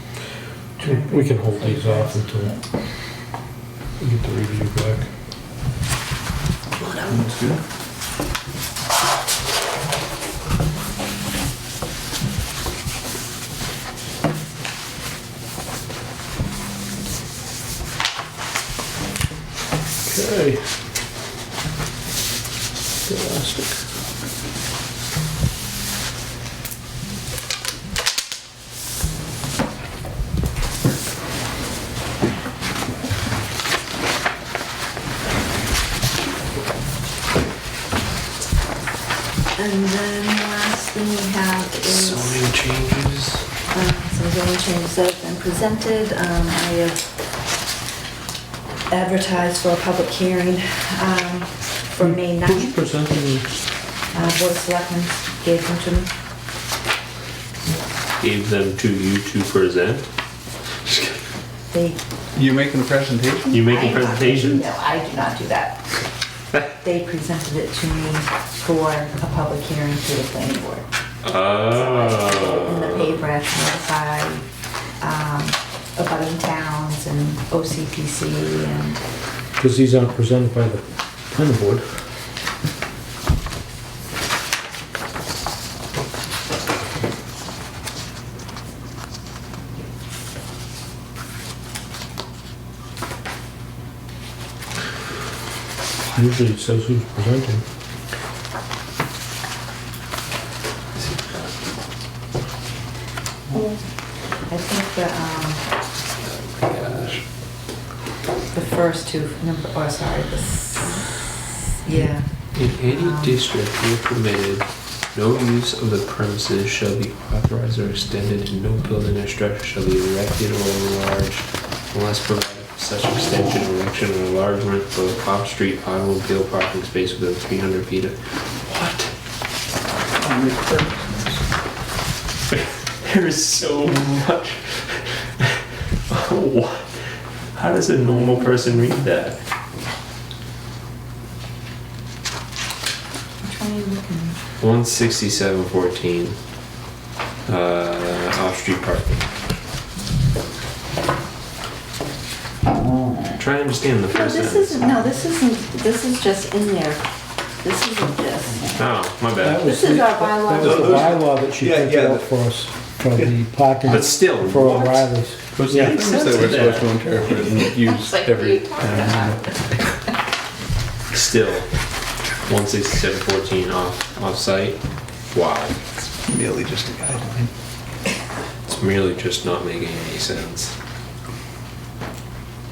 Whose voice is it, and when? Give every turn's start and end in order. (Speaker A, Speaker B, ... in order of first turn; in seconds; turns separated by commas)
Speaker A: 0.8-2.6, Speaker B: 0.9-2.5, Speaker B: 4.0-5.1, Speaker A: 6.8-7.1, Speaker C: 7.0-7.6, Speaker B: 20.1-20.7, Speaker B: 23.1-23.8, Speaker A: 39.6-42.5, Speaker D: 41.8-43.5, Speaker A: 43.7-47.1, Speaker A: 48.9-52.9, Speaker B: 52.5-53.5, Speaker A: 54.1-56.1, Speaker D: 58.2-60.1, Speaker A: 61.7-62.0, Speaker C: 62.4-63.6, Speaker D: 63.5-64.6, Speaker A: 63.6-65.8, Speaker A: 66.7-70.9, Speaker D: 71.2-73.2, Speaker A: 71.7-74.5, Speaker A: 75.0-79.0, Speaker B: 79.6-81.8, Speaker B: 96.1-97.6, Speaker D: 101.0-101.6, Speaker A: 103.5-105.7, Speaker D: 106.2-107.3, Speaker A: 108.5-113.4, Speaker D: 112.3-129.1, Speaker C: 130.1-131.5, Speaker D: 132.5-139.4, Speaker A: 143.4-144.4, Speaker D: 144.6-146.4, Speaker D: 147.5-149.3, Speaker D: 153.4-154.9, Speaker A: 154.1-158.8, Speaker D: 158.8-159.8, Speaker B: 159.4-166.0, Speaker A: 159.6-161.0, Speaker C: 160.5-162.3, Speaker D: 163.8-167.2, Speaker C: 165.5-169.8, Speaker A: 167.6-169.7, Speaker D: 171.1-175.8, Speaker C: 176.3-177.5, Speaker D: 178.7-180.8